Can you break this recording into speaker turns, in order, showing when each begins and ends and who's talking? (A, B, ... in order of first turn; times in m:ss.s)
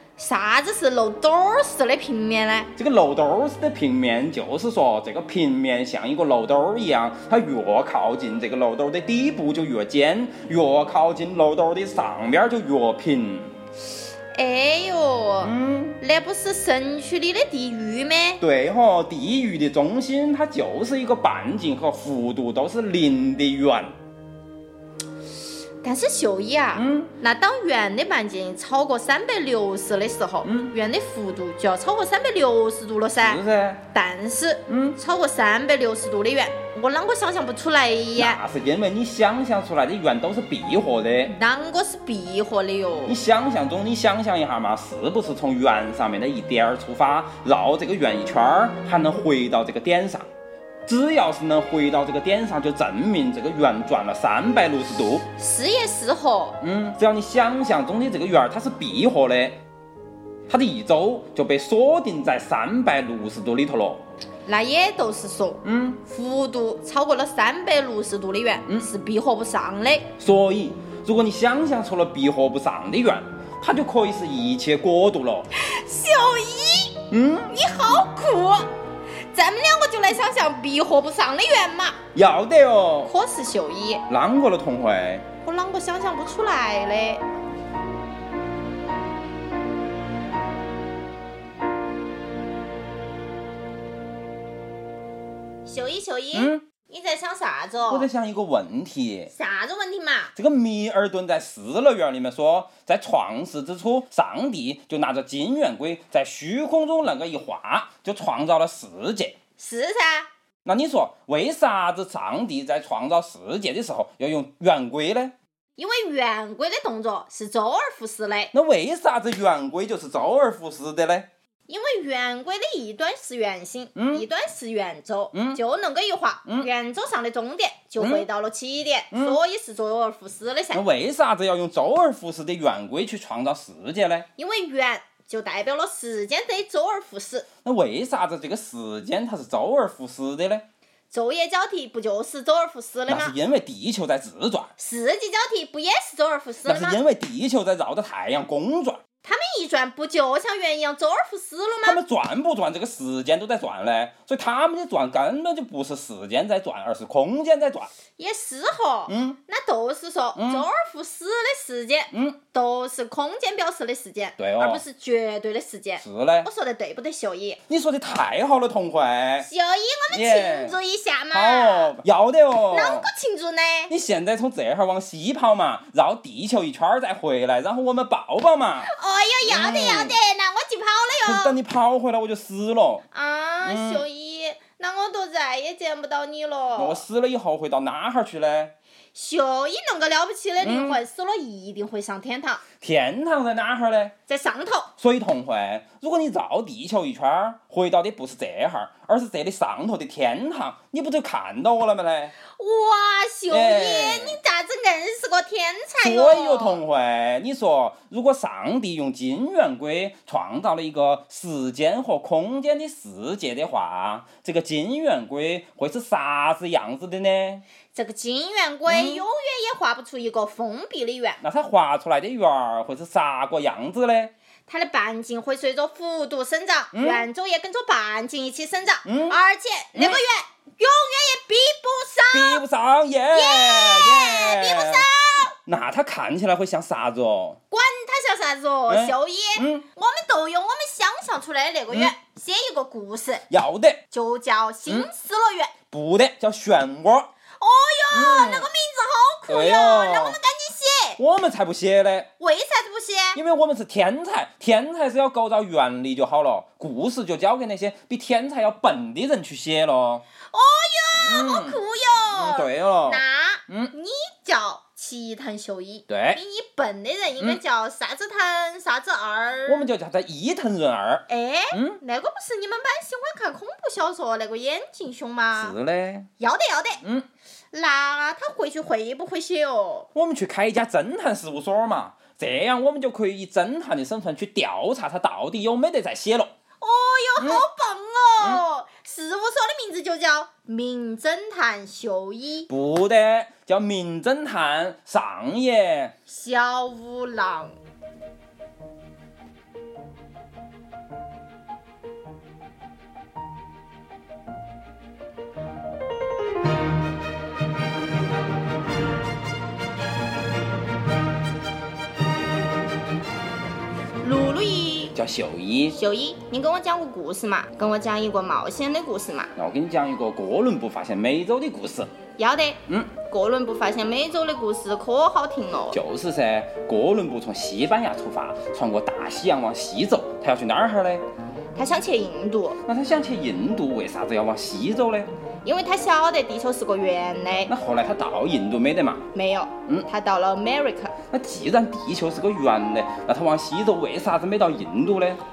0:00.2-0:02.7 A
0:02.8-0:13.5 B
0:14.3-0:18.4 A
0:15.4-0:16.0 B
0:18.4-0:23.9 B
0:25.8-0:38.4 A
0:26.8-0:27.2 B
0:30.4-0:30.7 B
0:33.2-0:33.8 B
0:34.7-0:35.0 B
0:38.2-0:41.4 B
0:41.3-0:43.2 A
0:43.1-0:50.3 B
0:50.9-0:55.2 B
0:55.4-0:56.6 A
0:56.6-0:59.6 B
1:00.5-1:04.0 B
1:04.5-1:10.1 A
1:05.6-1:06.0 B
1:10.2-1:15.5 B
1:15.5-1:18.7 A
1:17.1-1:17.6 B
1:19.3-1:22.0 A
1:22.1-1:23.1 B
1:23.1-1:24.0 A
1:24.1-1:25.2 B
1:25.4-1:27.2 A
1:35.6-1:38.1 A
1:36.3-1:36.6 B
1:37.9-1:39.3 B
1:39.3-1:40.3 A
1:40.4-1:49.4 B
1:49.6-1:50.3 A
1:50.6-1:55.3 B
1:55.8-1:58.5 A
1:58.5-2:01.3 B
2:01.7-2:10.8 A
2:04.0-2:04.3 B
2:05.3-2:05.6 B
2:08.0-2:08.3 B
2:09.1-2:09.4 B
2:10.7-2:14.3 B
2:14.4-2:17.5 A
2:17.6-2:20.6 B
2:21.1-2:23.4 A
2:23.1-2:24.7 B
2:24.8-2:27.0 A
2:26.6-2:29.0 B
2:29.2-2:32.0 A
2:31.8-2:37.9 B
2:38.2-2:47.6 A
2:39.1-2:39.4 B
2:40.4-2:40.7 B
2:42.1-2:42.4 B
2:44.4-2:44.8 B
2:46.0-2:46.5 B
2:47.7-2:49.5 B
2:49.4-2:51.9 A
2:50.1-2:50.8 B
2:51.3-2:53.1 B
2:52.7-2:53.9 A
2:53.9-2:58.9 B
2:58.8-3:01.6 A
2:59.4-3:00.2 B
3:01.2-3:03.0 B
3:03.1-3:07.0 A
3:03.6-3:04.0 B
3:06.8-3:08.7 B
3:09.2-3:12.6 A
3:10.6-3:11.0 B
3:12.8-3:14.1 B
3:14.3-3:14.9 A
3:15.0-3:22.4 B
3:22.5-3:26.8 A
3:23.5-3:24.4 B
3:26.0-3:37.6 B
3:37.9-3:41.4 A
3:38.9-3:39.2 B
3:41.4-3:44.3 B
3:44.7-3:52.6 A
3:46.9-3:47.3 B
3:49.0-3:49.4 B
3:50.0-3:50.2 B
3:52.3-3:55.1 B
3:53.3-3:55.5 A
3:55.7-3:57.6 B
3:57.7-4:03.4 A
3:58.9-3:59.8 B
4:03.5-4:04.0 B
4:04.1-4:05.7 A
4:05.9-4:07.3 B
4:07.6-4:11.2 A
4:08.1-4:08.7 B
4:09.5-4:10.4 B
4:11.2-4:12.3 B
4:12.4-4:13.4 A
4:13.4-4:20.2 B
4:20.5-4:29.9 A
4:21.2-4:21.8 B
4:22.3-4:23.9 B
4:26.1-4:26.4 B
4:29.7-4:32.0 B
4:31.3-4:35.8 A
4:35.6-4:36.3 B
4:36.4-4:37.0 A
4:37.7-4:40.1 A
4:40.2-4:46.5 B
4:46.8-4:52.7 A
4:47.4-4:47.6 B
4:52.7-4:56.1 B
4:56.3-4:57.8 A
5:14.2-5:15.2 A
5:15.1-5:16.0 B
5:15.9-5:19.5 A
5:19.6-5:22.1 B
5:22.4-5:26.0 A
5:22.9-5:23.1 B
5:25.9-5:31.2 B
5:31.8-5:32.8 A
5:32.9-5:35.3 B
5:35.6-5:37.7 A
5:37.7-5:39.2 B
5:39.3-5:41.1 A
5:41.3-5:45.4 B